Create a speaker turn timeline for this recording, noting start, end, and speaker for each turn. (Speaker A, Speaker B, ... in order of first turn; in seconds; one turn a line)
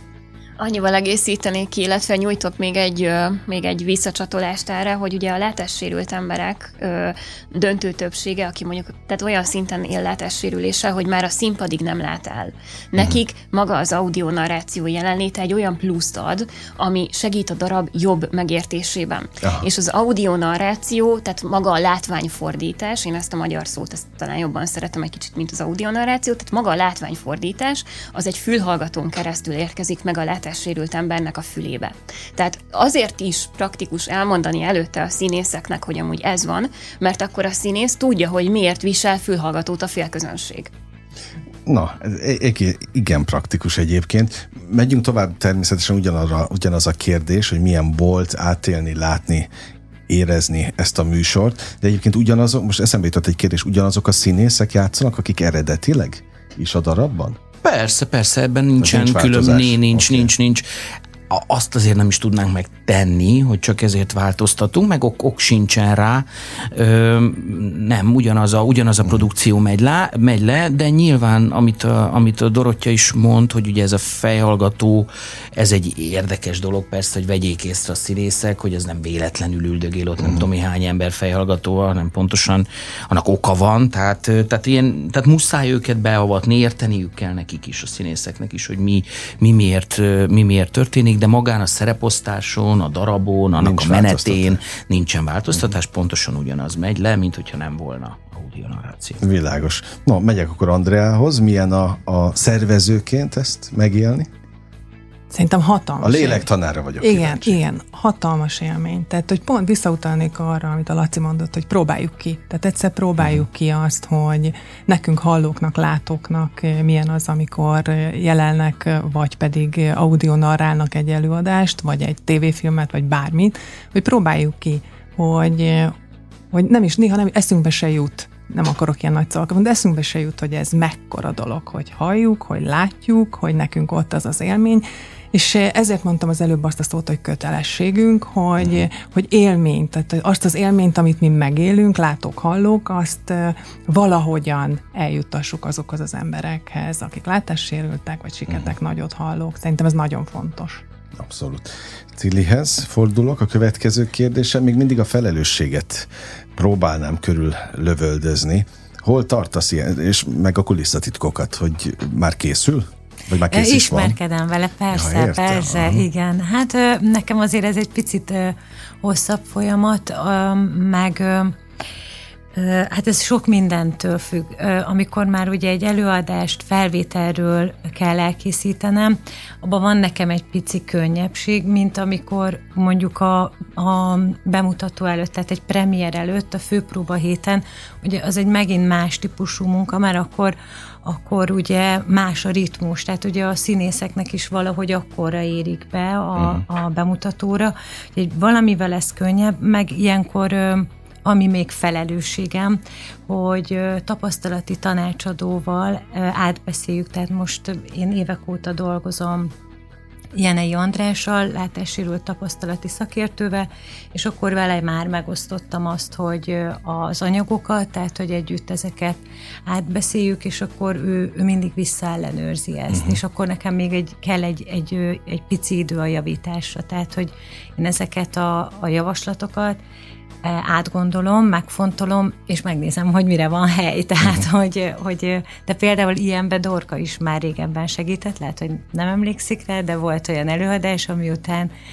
Speaker A: 0.6-40.7
Speaker B: 41.6-49.5
Speaker B: 50.1-57.4
Speaker C: 57.6-60.6
Speaker B: 58.8-60.3
Speaker C: 61.3-99.2
Speaker B: 93.6-94.6
Speaker B: 99.2-104.3
Speaker D: 105.3-106.5
Speaker B: 106.0-107.6
Speaker D: 107.0-125.9
Speaker D: 126.5-150.8
Speaker B: 151.2-164.2
Speaker E: 163.5-171.6
Speaker B: 164.9-166.1
Speaker E: 172.5-209.5
Speaker B: 196.4-196.6
Speaker E: 210.3-229.8
Speaker B: 222.9-223.2
Speaker E: 230.4-241.7